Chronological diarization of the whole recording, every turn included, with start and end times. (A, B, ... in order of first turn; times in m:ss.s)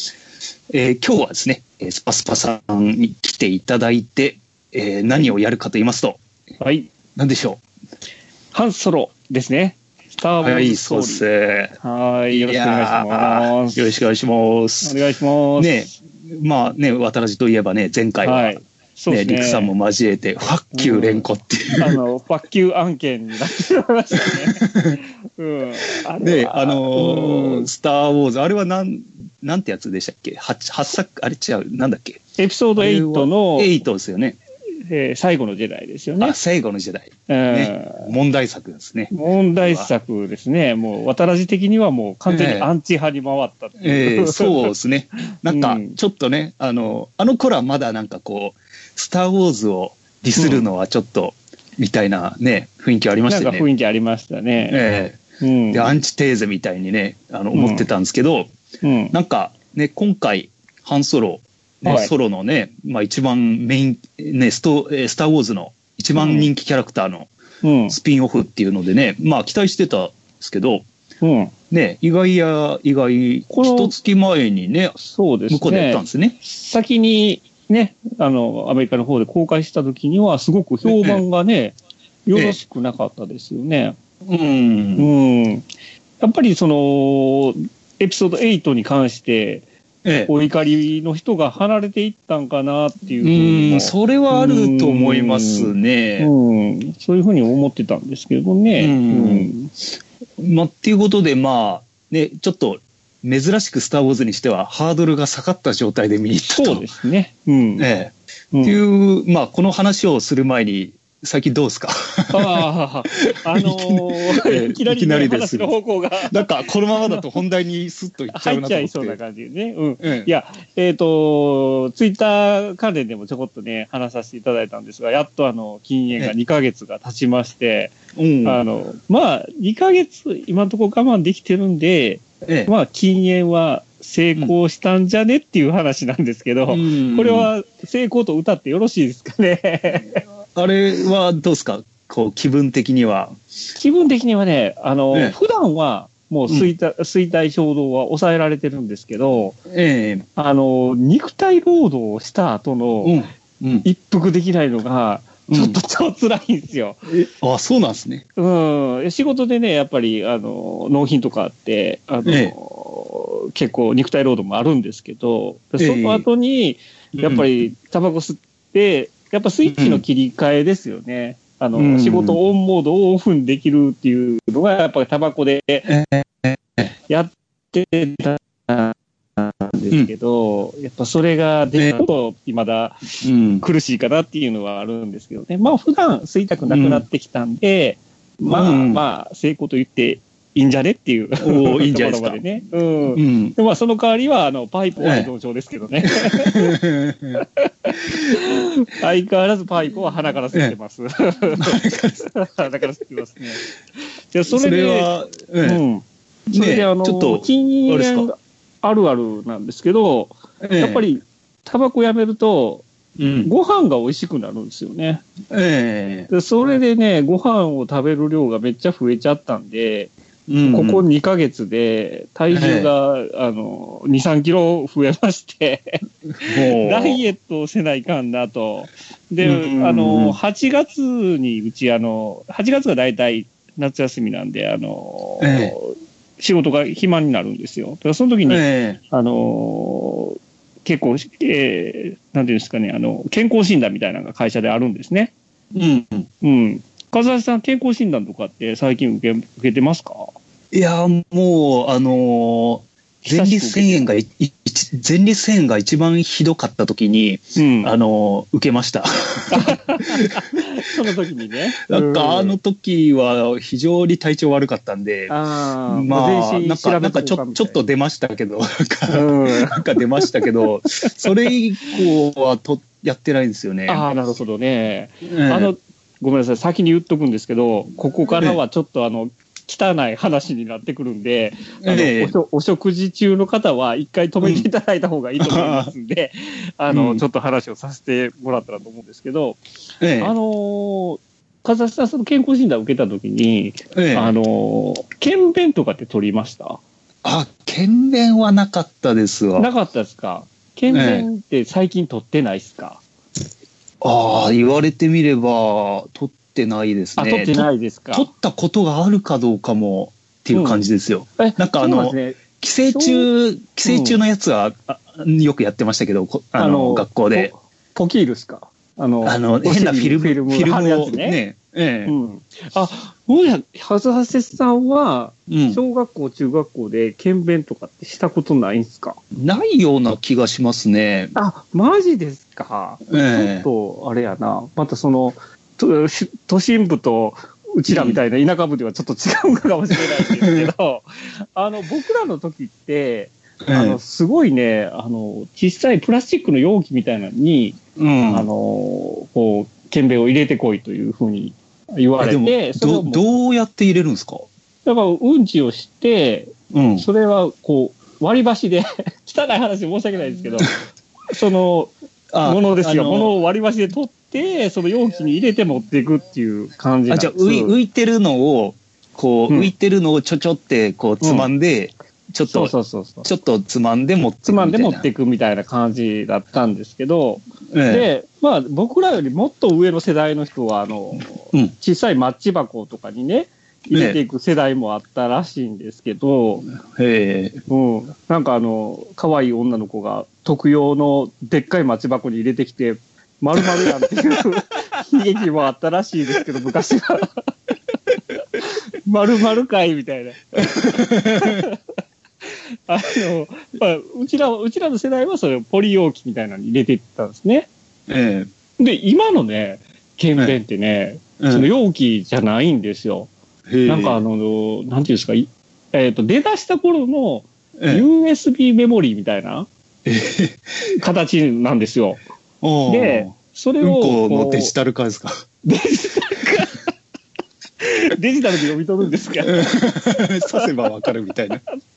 0:00.7-0:06.2 A
0:06.6-0:06.9 B
0:07.2-0:07.6 A
0:08.5-0:11.2 B
0:10.4-0:11.7 A
0:11.8-0:13.9 B
0:12.3-0:15.0 A
0:14.8-0:15.9 B
0:15.6-0:18.6 A
0:18.2-0:19.7 B
0:19.1-0:22.0 A
0:20.8-0:21.3 B
0:21.8-0:24.7 B
0:24.4-0:25.0 A
0:25.4-0:27.7 B
0:26.2-0:32.2 A
0:32.4-0:33.8 B
0:32.8-0:34.4 A
0:34.9-0:36.4 B
0:36.2-0:39.9 A
0:37.3-0:38.1 B
0:39.1-0:44.7 B
0:42.3-0:42.7 A
0:43.8-0:53.7 A
0:45.4-0:46.0 B
0:50.4-0:50.7 B
0:53.3-0:54.8 B
0:54.7-0:58.5 A
0:55.4-0:55.9 B
0:57.5-0:57.9 B
0:58.8-0:59.1 B
0:59.1-1:07.3 A
1:01.8-1:02.1 B
1:06.2-1:06.5 B
1:07.6-1:08.0 B
1:07.9-1:10.9 A
1:11.2-1:11.5 B
1:11.7-1:15.0 A
1:13.5-1:14.0 B
1:15.0-1:24.0 B
1:15.5-1:16.4 A
1:20.8-1:21.2 A
1:22.3-1:22.6 A
1:24.3-1:25.1 A
1:25.0-1:25.7 B
1:26.2-1:29.7 B
1:30.0-1:30.3 A
1:30.3-1:39.7 B
1:33.2-1:36.3 A
1:38.8-1:39.5 A
1:40.4-1:46.9 A
1:46.5-1:47.9 B
1:47.8-1:59.2 A
1:48.5-1:48.8 B
1:52.3-1:56.4 B
1:58.3-2:20.2 B
2:00.0-2:00.3 A
2:08.2-2:08.6 A
2:12.4-2:12.7 A
2:16.7-2:17.5 A
2:20.6-2:23.4 A
2:23.8-2:29.6 B
2:29.7-2:30.2 A
2:30.4-2:33.2 B
2:33.0-2:33.9 A
2:33.8-2:37.0 B
2:35.5-2:35.8 A
2:37.1-2:38.2 A
2:38.4-2:55.9 B
2:42.2-2:42.5 A
2:45.8-2:46.3 A
2:47.1-2:47.5 A
2:49.7-2:50.0 A
2:51.8-2:52.4 A
2:55.9-2:56.9 A
2:57.1-3:16.8 B
3:01.8-3:02.0 A
3:03.2-3:03.6 A
3:06.6-3:07.0 A
3:08.5-3:09.0 A
3:11.4-3:12.4 A
3:13.1-3:13.6 A
3:15.0-3:15.3 A
3:16.1-3:17.4 A
3:17.4-3:23.6 B
3:21.6-3:22.3 A
3:24.3-3:25.1 B
3:24.5-3:25.8 A
3:25.6-3:32.9 B
3:26.5-3:28.3 A
3:30.6-3:31.0 A
3:33.2-3:33.5 A
3:33.4-3:35.2 B
3:35.5-3:36.3 A
3:36.3-3:40.1 B
3:40.5-3:41.0 A
3:40.7-4:05.3 B
3:42.5-3:42.9 A
3:46.4-3:47.2 A
3:49.4-3:50.4 A
3:55.4-3:55.8 A
3:58.5-3:59.0 A
4:05.7-4:06.3 A
4:06.4-4:10.3 B
4:10.7-4:20.4 A
4:13.2-4:14.0 B
4:17.6-4:17.9 B
4:19.5-4:22.6 B
4:21.9-4:25.3 A
4:25.3-4:27.8 B
4:25.9-4:34.1 A
4:29.1-4:30.5 B
4:33.9-4:49.6 B
4:35.2-4:35.7 A
4:41.8-4:42.3 A
4:44.4-4:44.7 A
4:45.4-4:45.9 A
4:46.9-4:47.2 A
4:50.0-4:50.3 A
4:50.2-4:56.8 B
4:54.0-4:54.3 A
4:57.2-4:59.7 A
4:59.6-5:03.0 B
5:00.9-5:01.3 A
5:04.0-5:17.5 A
5:07.2-5:08.3 B
5:10.5-5:10.8 B
5:11.4-5:13.3 B
5:13.8-5:14.2 B
5:16.6-5:21.4 B
5:19.2-5:22.1 A
5:22.1-5:29.2 B
5:25.5-5:25.8 A
5:29.3-5:31.3 A
5:31.4-5:47.8 B
5:33.1-5:33.7 A
5:37.9-5:38.2 A
5:40.4-5:40.7 A
5:43.6-5:44.0 A
5:48.0-5:48.5 A
5:48.3-5:53.2 B
5:52.2-5:54.5 A
5:54.8-6:00.7 B
5:56.7-5:57.1 A
6:01.3-6:01.9 B
6:02.3-6:03.3 A
6:02.4-6:07.7 B
6:07.1-6:15.1 A
6:11.2-6:11.5 B
6:12.5-6:13.3 B
6:14.4-6:26.7 B
6:17.7-6:18.1 A
6:23.9-6:24.2 A
6:26.9-6:27.6 A
6:27.7-6:37.5 B
6:38.6-6:41.8 B
6:40.6-6:41.7 A
6:42.4-6:47.7 B
6:48.1-6:48.5 A
6:48.8-6:53.3 B
6:51.4-6:51.7 A
6:53.7-6:54.2 A
6:53.9-6:59.7 B
6:57.8-6:58.1 A
7:00.1-7:00.8 A
7:00.9-7:02.2 B
7:02.6-7:05.4 A
7:02.9-7:04.7 B
7:05.6-7:06.9 B
7:07.8-7:09.7 B
7:09.4-7:11.6 A
7:10.5-7:10.7 B